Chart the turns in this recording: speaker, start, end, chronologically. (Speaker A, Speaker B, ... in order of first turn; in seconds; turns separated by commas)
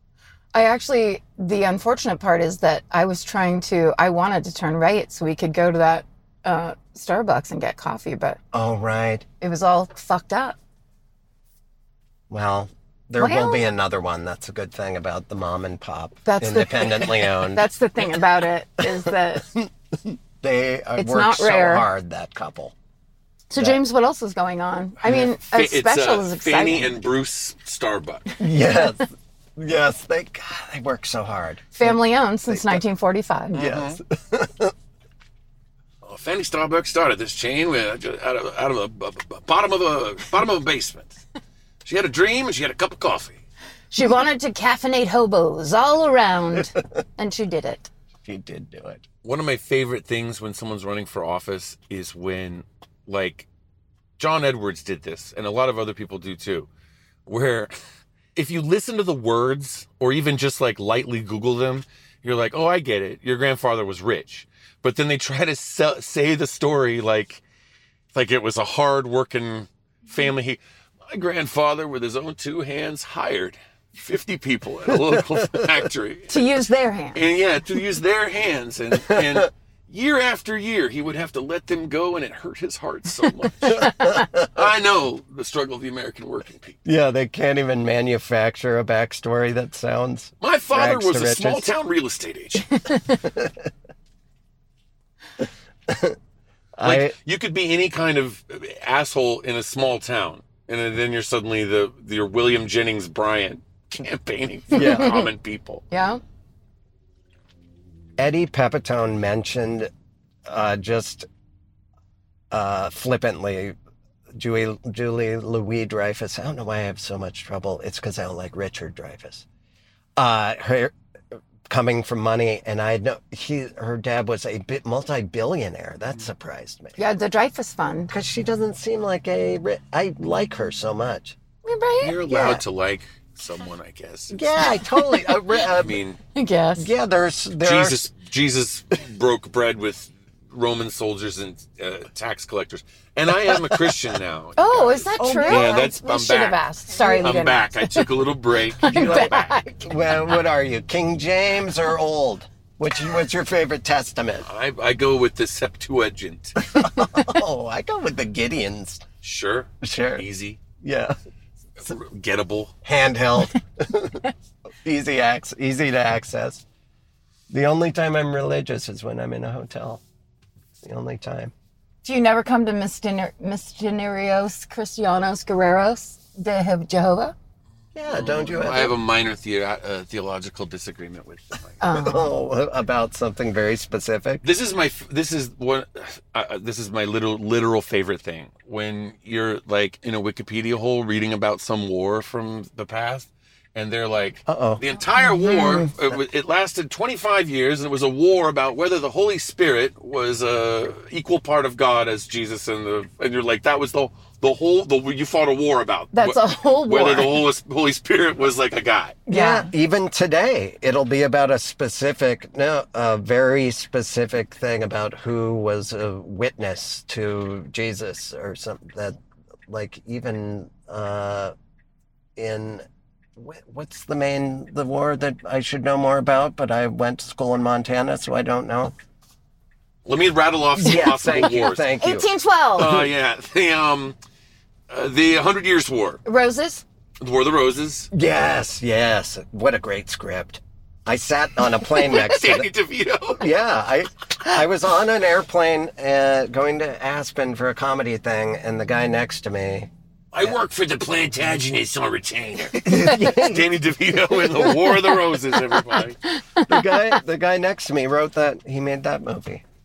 Speaker A: 0.5-8.4, Speaker B: 8.5-9.2, Speaker A: 9.4-10.6, Speaker B: 12.3-17.6, Speaker A: 13.2-13.7, Speaker A: 16.2-19.5, Speaker B: 18.8-22.7, Speaker A: 21.0-21.9, Speaker A: 23.5-27.0, Speaker C: 25.0-28.2, Speaker B: 28.4-32.8, Speaker A: 31.7-33.6, Speaker B: 33.5-34.7, Speaker C: 33.5-34.0, Speaker C: 36.0-41.2, Speaker C: 41.8-43.4, Speaker A: 43.9-47.9, Speaker B: 48.2-49.0, Speaker C: 49.2-53.5, Speaker C: 54.2-56.7, Speaker C: 57.2-57.7, Speaker C: 58.3-67.4, Speaker C: 68.1-76.5, Speaker B: 75.1-75.7, Speaker A: 76.3-77.2, Speaker C: 77.1-83.9, Speaker B: 79.0-79.4, Speaker A: 83.6-84.2, Speaker B: 83.7-84.5, Speaker C: 84.5-86.8, Speaker B: 86.8-91.7, Speaker C: 90.4-92.7, Speaker B: 93.2-93.5, Speaker B: 95.9-96.2, Speaker B: 96.8-97.1, Speaker C: 96.8-105.8, Speaker B: 104.7-105.2, Speaker A: 104.7-105.3, Speaker A: 105.9-106.2, Speaker B: 108.2-109.9, Speaker B: 110.5-111.2, Speaker B: 112.5-113.7, Speaker B: 114.3-119.5, Speaker B: 120.2-120.9, Speaker B: 121.7-127.0, Speaker A: 127.0-128.1, Speaker B: 128.1-131.3, Speaker A: 131.6-132.2, Speaker C: 132.0-134.4, Speaker B: 132.3-132.6, Speaker B: 134.3-136.0, Speaker A: 134.6-135.2, Speaker C: 135.7-136.2, Speaker A: 136.3-136.9, Speaker B: 136.8-138.0, Speaker C: 137.6-149.6, Speaker B: 143.5-144.0, Speaker A: 144.6-148.1, Speaker B: 145.2-145.9, Speaker A: 148.8-149.8, Speaker B: 148.9-154.4, Speaker C: 154.4-156.7, Speaker B: 156.6-159.0, Speaker C: 159.2-160.6, Speaker B: 159.8-160.2, Speaker B: 160.8-161.2, Speaker C: 161.8-162.7, Speaker B: 162.8-164.3, Speaker B: 164.8-166.6, Speaker B: 167.5-170.0, Speaker B: 170.8-171.5, Speaker A: 172.0-177.3, Speaker B: 177.9-178.9, Speaker C: 178.0-181.8, Speaker A: 181.8-182.3, Speaker B: 181.9-184.4, Speaker C: 184.4-209.2, Speaker B: 194.4-194.8, Speaker A: 195.2-195.9, Speaker A: 206.1-207.4, Speaker B: 209.3-221.5, Speaker A: 209.3-209.7, Speaker B: 222.3-222.8, Speaker B: 223.3-228.9, Speaker C: 230.0-231.8, Speaker B: 230.8-233.1, Speaker A: 230.8-232.9, Speaker C: 232.8-234.2, Speaker C: 234.9-236.2, Speaker A: 236.2-236.8, Speaker C: 237.2-238.1, Speaker B: 238.1-242.7, Speaker C: 242.1-243.5, Speaker B: 243.4-249.9, Speaker C: 250.3-256.2, Speaker B: 252.8-253.7, Speaker B: 254.4-254.8, Speaker A: 254.6-257.0, Speaker B: 256.6-259.6